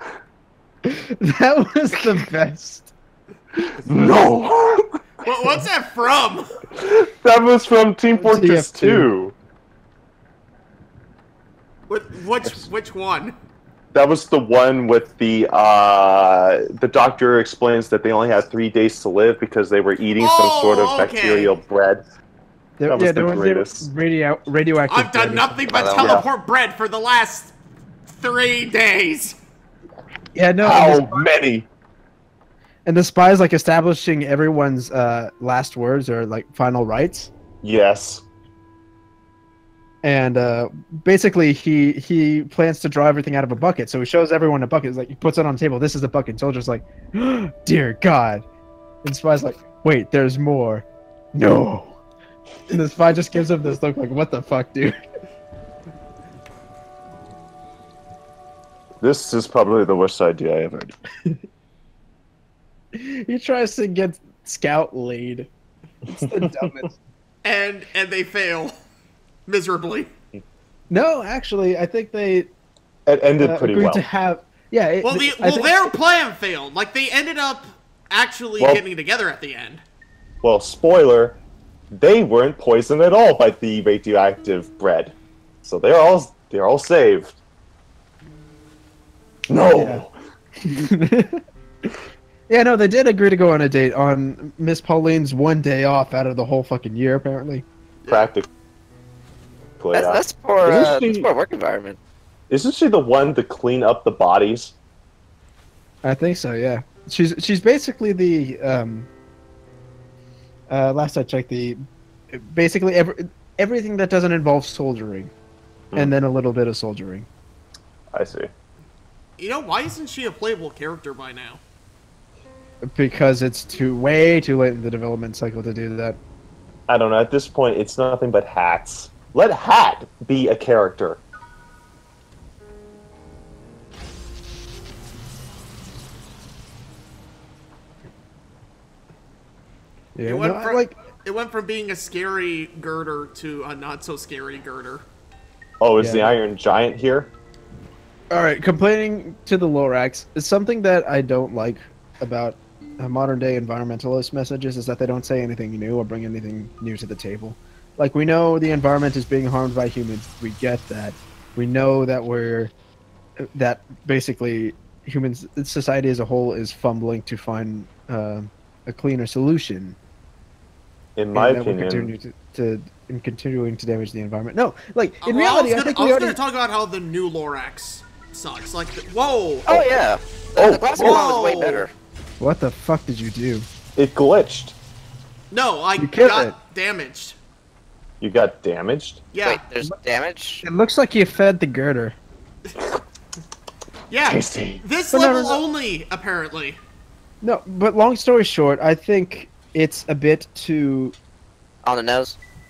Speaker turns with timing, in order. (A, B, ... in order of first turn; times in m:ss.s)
0:00.8-0:02.9 A
0:03.8-0:04.8 B
0:05.2-0:06.6 C
0:06.7-0:09.3 B
0:08.1-0:09.1 A
0:11.9-0:13.4 C
0:12.4-0:12.7 B
0:13.9-0:22.0 B
0:20.2-0:21.5 C
0:22.8-0:25.6 A
0:22.9-0:23.9 B
0:24.9-0:27.5 C
0:25.7-0:26.2 D
0:26.0-0:26.2 B
0:28.1-0:29.4 C
0:30.3-0:31.2 A
0:30.6-0:31.7 B
0:32.8-0:37.3 A
0:37.6-0:38.2 B
0:40.0-0:48.4 A
0:49.0-0:52.0 A
0:52.7-0:54.9 A
0:59.0-1:00.9 B
1:02.9-1:05.5 A
1:06.1-1:06.9 A
1:06.4-1:06.7 B
1:07.4-1:08.7 C
1:09.5-1:10.1 C
1:10.9-1:12.5 A
1:13.1-1:14.0 B
1:13.4-1:15.9 A
1:15.0-1:19.8 C
1:20.4-1:21.4 B
1:21.9-1:27.4 B
1:29.5-1:30.1 B
1:29.7-1:30.0 A
1:30.7-1:31.4 A
1:32.5-1:37.6 A
1:38.0-1:38.3 C
1:38.1-1:38.5 B
1:39.8-1:41.3 B
1:39.9-1:42.0 D
1:42.5-1:44.7 B
1:46.0-1:49.1 A
1:50.7-1:55.3 A
1:55.9-1:57.3 A
1:58.1-1:58.5 B
1:59.4-2:01.6 C
2:02.9-2:06.2 A
2:06.9-2:11.2 B
2:20.1-2:20.9 A
2:20.2-2:25.0 C
2:25.8-2:27.3 B
2:26.0-2:26.3 A
2:28.3-2:42.7 A
2:43.4-2:50.0 A
2:51.2-2:52.1 B
2:51.3-2:56.4 A
2:55.2-2:59.9 C
2:59.7-3:01.9 D
3:00.6-3:01.2 B
3:01.0-3:01.9 C
3:02.4-3:03.7 A
3:04.0-3:04.7 B
3:05.5-3:07.4 C
3:06.0-3:06.6 A
3:08.2-3:09.2 B
3:09.3-3:09.6 C
3:09.4-3:10.6 D
3:10.6-3:12.2 A
3:14.1-3:16.8 C
3:14.2-3:14.8 B
3:15.1-3:15.6 A
3:17.4-3:21.1 A
3:21.8-3:22.4 D